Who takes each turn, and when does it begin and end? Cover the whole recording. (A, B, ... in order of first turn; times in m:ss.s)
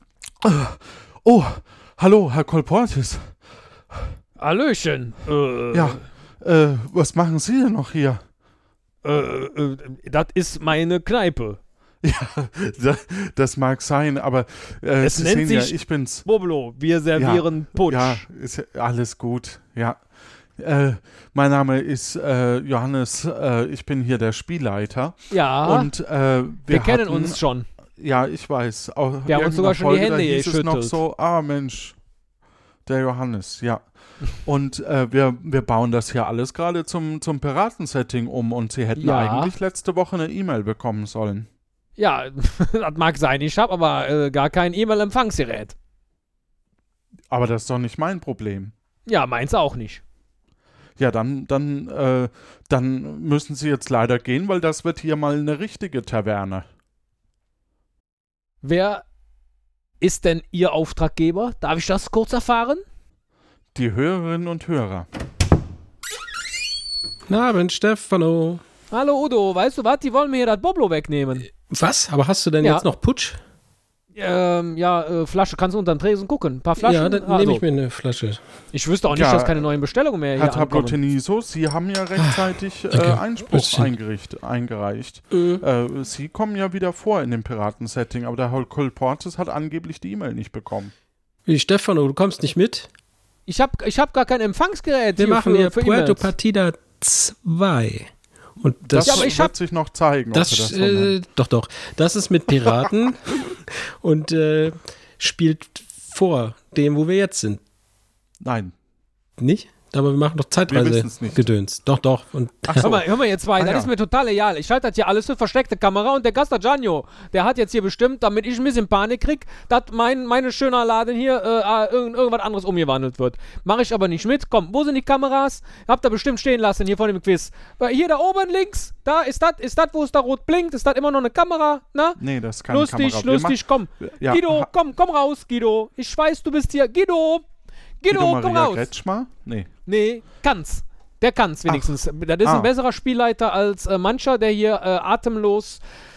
0:00.4-0:03.4 A
0:04.4-0:06.0 B
0:05.7-0:08.2 A
0:09.0-0:11.6 B
0:12.0-0:16.2 A
0:15.0-0:18.2 B
0:17.1-0:20.0 A
0:20.6-0:27.4 A
0:25.3-0:25.9 B
0:26.7-0:27.7 B
0:28.0-0:32.0 A
0:29.3-0:31.0 B
0:32.8-0:41.5 A
0:39.0-0:39.5 B
0:42.0-0:45.7 B
0:47.3-0:48.7 A
0:49.0-0:50.0 B
0:51.0-0:56.6 A
0:58.6-0:59.0 B
1:00.0-1:02.8 B
1:03.7-1:05.1 A
1:07.3-1:08.6 C
1:08.9-1:11.5 B
1:11.7-1:13.4 C
1:12.6-1:12.9 B
1:14.1-1:17.6 B
1:16.8-1:18.4 C
1:18.7-1:21.0 B
1:19.1-1:19.6 A
1:20.3-1:30.9 A
1:22.2-1:23.9 C
1:31.4-1:32.9 C
1:33.4-1:36.3 B
1:35.2-1:39.3 C
1:38.9-1:41.1 A
1:39.0-1:39.5 B
1:40.3-1:47.6 C
1:48.4-1:48.7 A
1:49.4-1:53.0 C
1:50.7-1:51.4 A
1:52.6-1:53.9 A
1:52.8-2:17.4 B
2:12.2-2:14.7 A
2:18.0-2:18.9 B
2:18.1-2:19.7 A
2:19.8-2:25.8 B
2:21.7-2:21.9 A
2:22.4-2:22.7 A